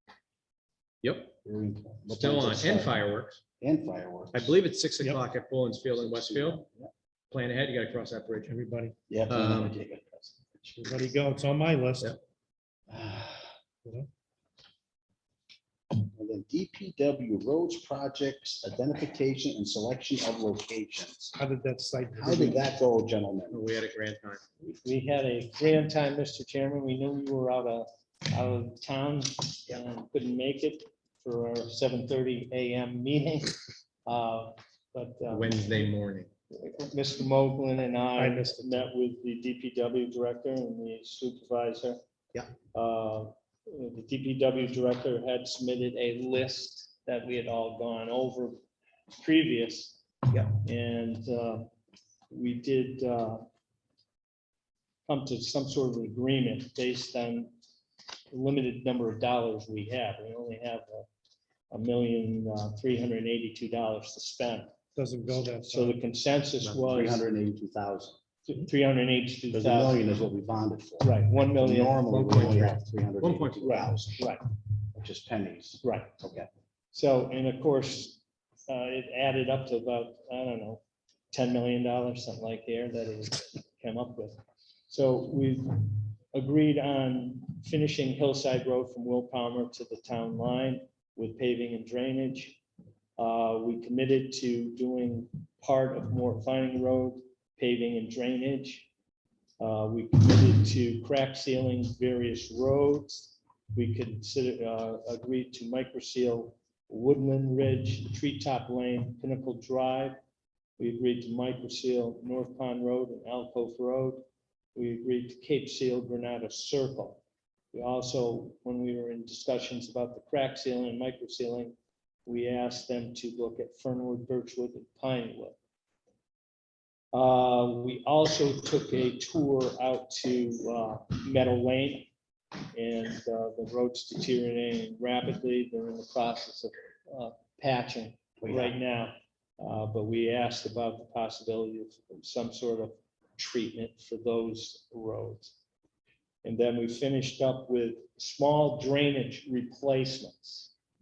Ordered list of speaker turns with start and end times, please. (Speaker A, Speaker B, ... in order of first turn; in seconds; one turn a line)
Speaker A: 1.0-1.3
Speaker B: 1.4-2.9
Speaker A: 2.1-3.4
Speaker B: 3.6-4.5
Speaker A: 4.3-6.7
Speaker B: 6.0-6.9
Speaker A: 7.3-8.5
Speaker C: 8.5-8.9
Speaker B: 9.1-11.1
Speaker A: 9.3-9.8
Speaker C: 10.8-12.2
Speaker B: 12.9-13.5
Speaker B: 16.0-21.3
Speaker C: 21.4-22.7
Speaker B: 22.1-23.6
Speaker A: 23.5-24.4
Speaker D: 24.6-35.8
Speaker A: 35.3-36.3
Speaker D: 36.5-42.0
Speaker C: 38.2-38.9
Speaker D: 42.7-48.6
Speaker D: 49.1-51.7
Speaker D: 52.3-53.4
Speaker D: 55.0-57.5
Speaker D: 58.3-61.1
Speaker D: 61.7-64.7
Speaker C: 64.9-66.0
Speaker D: 65.3-67.2
Speaker B: 66.7-68.2
Speaker D: 68.5-70.0
Speaker B: 69.5-74.2
Speaker D: 71.0-72.7
Speaker A: 72.1-73.9
Speaker D: 73.6-74.4
Speaker B: 74.9-76.5
Speaker D: 75.8-76.1
Speaker D: 76.9-92.6
Speaker D: 93.2-98.9
Speaker D: 99.6-110.2
Speaker D: 110.8-121.7
Speaker D: 122.2-125.6
Speaker D: 127.1-132.1
Speaker D: 132.7-145.5
Speaker B: 138.4-138.7
Speaker D: 146.4-150.7